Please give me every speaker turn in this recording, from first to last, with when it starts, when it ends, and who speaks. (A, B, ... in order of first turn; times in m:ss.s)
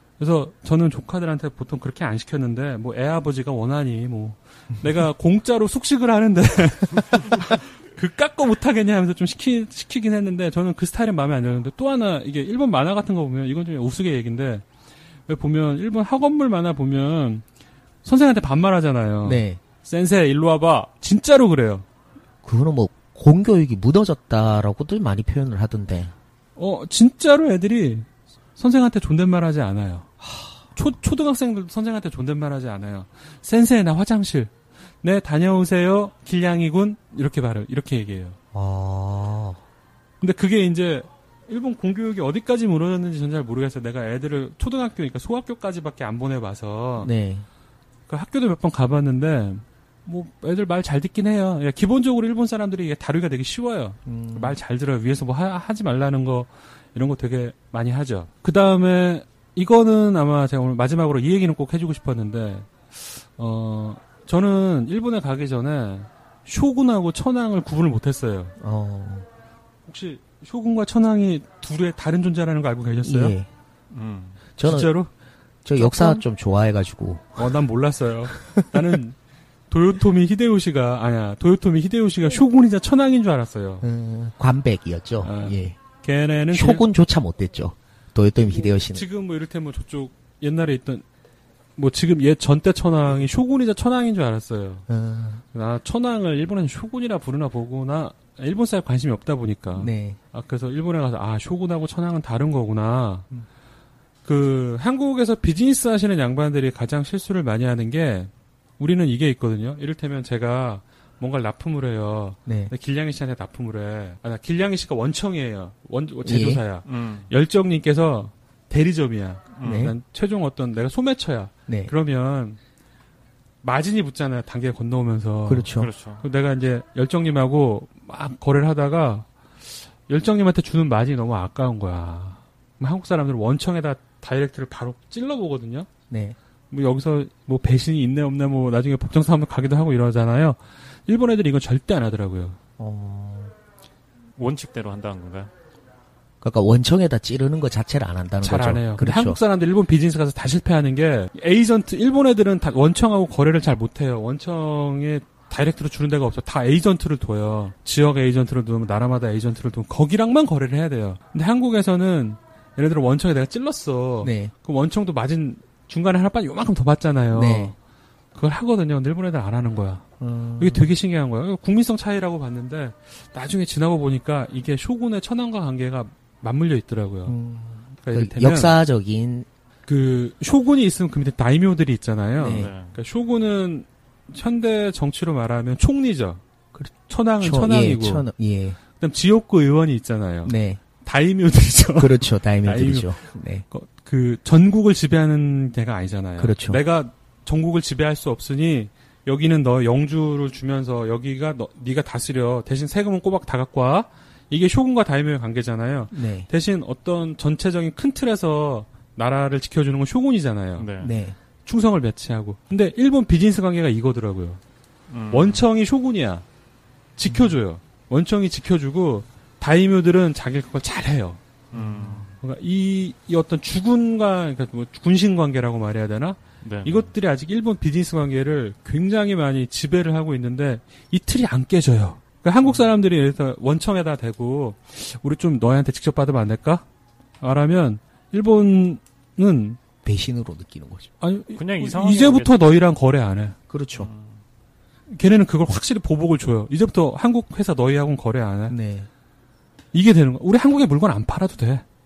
0:00.2-0:14.6 A
0:15.3-0:17.4 A
0:18.0-0:21.8 A
0:19.2-0:19.6 B
0:22.4-0:26.1 B
0:26.6-0:30.1 A
0:30.2-0:30.6 B
0:30.7-0:38.4 A
0:38.5-0:39.6 B
0:40.2-0:47.1 A
0:47.0-0:47.5 B
0:48.1-1:08.5 A
0:54.0-0:54.6 B
1:08.6-1:09.3 B
1:09.8-1:13.4 A
1:13.0-1:13.5 B
1:13.9-1:14.4 C
1:14.6-1:14.9 B
1:14.6-1:15.1 A
1:15.6-1:17.5 B
1:15.7-1:16.2 A
1:17.4-1:19.2 A
1:18.3-1:18.9 B
1:19.7-1:23.8 A
1:23.8-1:25.8 B
1:25.2-1:26.9 A
1:26.5-1:29.0 B
1:28.6-1:31.0 A
1:31.8-1:34.8 A
1:34.9-1:35.4 B
1:35.5-1:43.3 A
1:39.7-1:40.2 B
1:44.2-2:02.6 A
1:52.4-1:52.7 B
1:56.2-1:56.6 B
1:56.8-1:57.3 C
1:59.6-1:59.9 C
1:59.6-1:59.9 B
2:03.6-2:09.3 A
2:05.5-2:05.9 B
2:05.8-2:06.2 C
2:09.8-2:15.9 A
2:16.1-2:16.4 B
2:16.7-2:22.6 A
2:22.8-2:23.5 B
2:24.4-2:25.5 C
2:26.4-2:29.4 B
2:28.4-2:47.8 A
2:44.2-2:44.5 B
2:47.3-2:47.7 B
2:48.3-2:50.0 A
2:50.2-2:50.9 B
2:50.6-2:57.3 A
2:57.3-2:59.5 B
2:58.0-2:58.8 A
2:59.8-3:06.4 A
3:02.4-3:02.7 B
3:02.5-3:03.0 C
3:06.7-3:08.8 B
3:07.1-3:08.3 A
3:09.0-3:30.9 A
3:10.4-3:10.8 B
3:12.0-3:13.6 B
3:16.4-3:16.8 B
3:26.1-3:26.5 B
3:30.8-3:31.1 C
3:31.0-3:31.4 B
3:31.6-3:34.6 A
3:35.1-3:35.6 C
3:35.3-3:36.4 A
3:37.2-3:41.4 A
3:37.2-3:37.5 B
3:41.7-3:42.3 C
3:41.7-3:42.2 B
3:42.3-3:56.8 A
3:46.6-3:47.1 C
3:57.4-3:59.8 A
4:00.0-4:01.1 B
4:01.2-4:03.6 A
4:01.6-4:02.8 C
4:03.7-4:04.1 B
4:04.0-4:04.4 C
4:05.1-4:08.8 A
4:08.7-4:09.1 B
4:09.9-4:11.8 A